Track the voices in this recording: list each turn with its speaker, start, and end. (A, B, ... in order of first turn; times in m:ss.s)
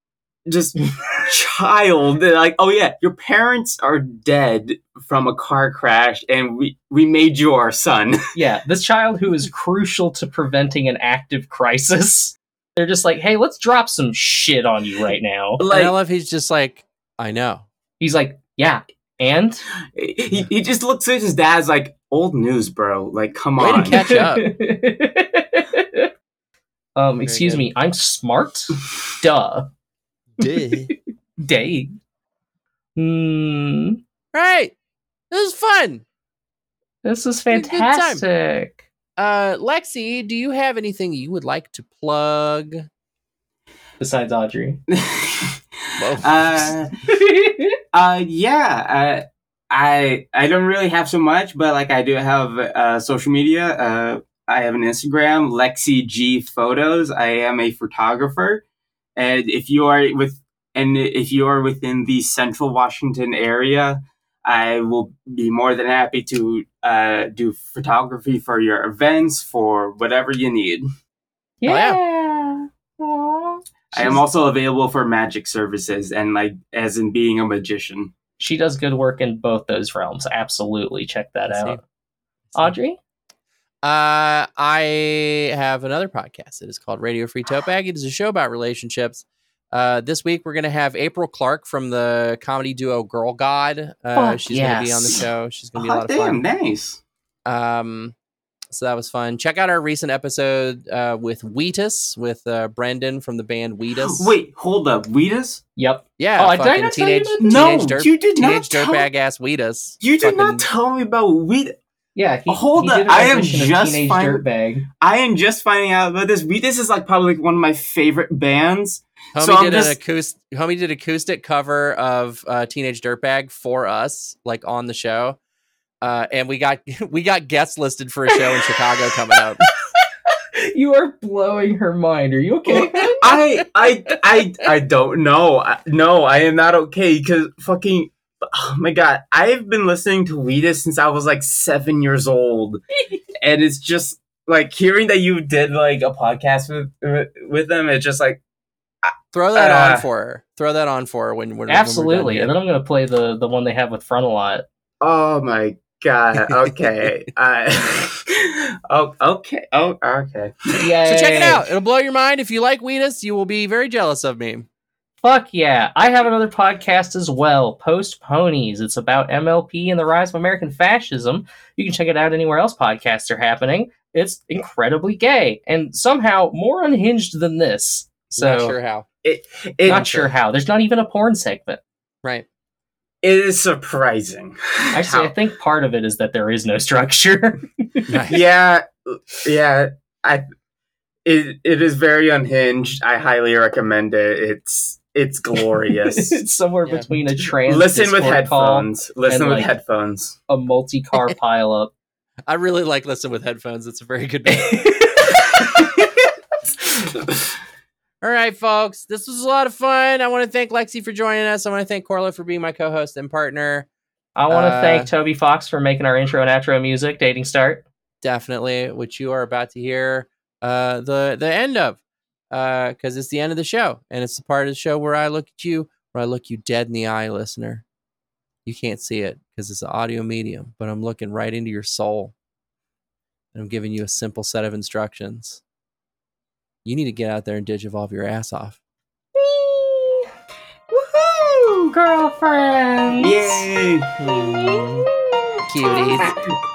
0:00.5-0:08.2 A
0:08.3-0:15.6 B
0:15.6-0:15.9 A
0:15.7-0:17.6 C
0:18.0-0:19.6 B
0:20.0-0:24.0 A
0:23.6-0:24.5 C
0:23.9-0:26.1 B
0:27.0-0:29.7 B
0:27.2-0:27.7 C
0:30.4-0:30.9 C
0:30.6-0:32.0 B
0:33.0-0:34.0 B
0:34.3-0:34.7 C
0:35.3-0:36.0 C
0:37.0-0:38.8 B
0:37.5-0:38.2 C
0:39.2-0:42.8 C
0:44.0-0:44.8 B
0:44.9-0:45.6 A
0:46.0-0:46.7 C
0:46.2-0:46.9 A
0:47.1-0:47.7 B
0:47.9-0:58.6 A
0:59.2-1:10.8 A
1:11.6-1:14.2 B
1:11.7-1:12.0 C
1:13.9-1:18.1 A
1:18.4-1:21.8 B
1:21.5-1:21.8 C
1:22.5-1:23.0 B
1:23.8-1:36.4 C
1:34.1-1:35.2 B
1:35.7-1:37.0 A
1:37.4-1:38.1 C
1:38.7-1:44.3 C
1:44.0-1:45.6 A
1:45.8-1:47.8 B
1:46.2-1:50.6 C
1:47.4-1:49.1 A
1:50.0-1:51.8 A
1:52.2-1:54.8 B
1:52.5-1:54.4 A
1:55.0-2:00.0 A
1:59.3-2:05.4 C
2:06.0-2:09.6 C
2:10.3-2:13.3 B
2:12.7-2:22.8 A
2:12.8-2:13.1 C
2:23.4-2:28.4 A
2:29.0-2:30.0 A
2:29.3-2:32.5 C
2:31.7-2:34.6 B
2:35.0-2:40.8 A
2:40.8-2:41.6 B
2:41.0-2:44.7 C
2:45.2-2:58.7 B
2:58.3-2:59.1 C
2:59.2-3:00.1 A
2:59.9-3:00.3 C
2:59.9-3:01.8 B
3:03.2-3:05.3 A
3:04.9-3:08.1 B
3:08.1-3:08.4 C
3:08.3-3:10.4 A
3:11.2-3:16.4 A
3:16.1-3:19.7 B
3:16.8-3:17.1 C
3:17.6-3:20.4 A
3:20.5-3:21.9 B
3:22.4-3:24.8 C
3:24.5-3:26.2 B
3:28.2-3:33.9 C
3:34.4-3:37.8 B
3:34.5-3:35.1 C
3:38.2-3:42.0 C
3:42.5-3:47.8 C
3:48.6-3:52.3 C
3:53.5-3:55.6 C
3:56.8-3:58.8 C
3:59.4-4:00.3 B
4:00.9-4:03.6 B
4:03.2-4:04.1 A
4:04.2-4:05.1 C
4:04.3-4:06.4 B
4:05.7-4:06.4 C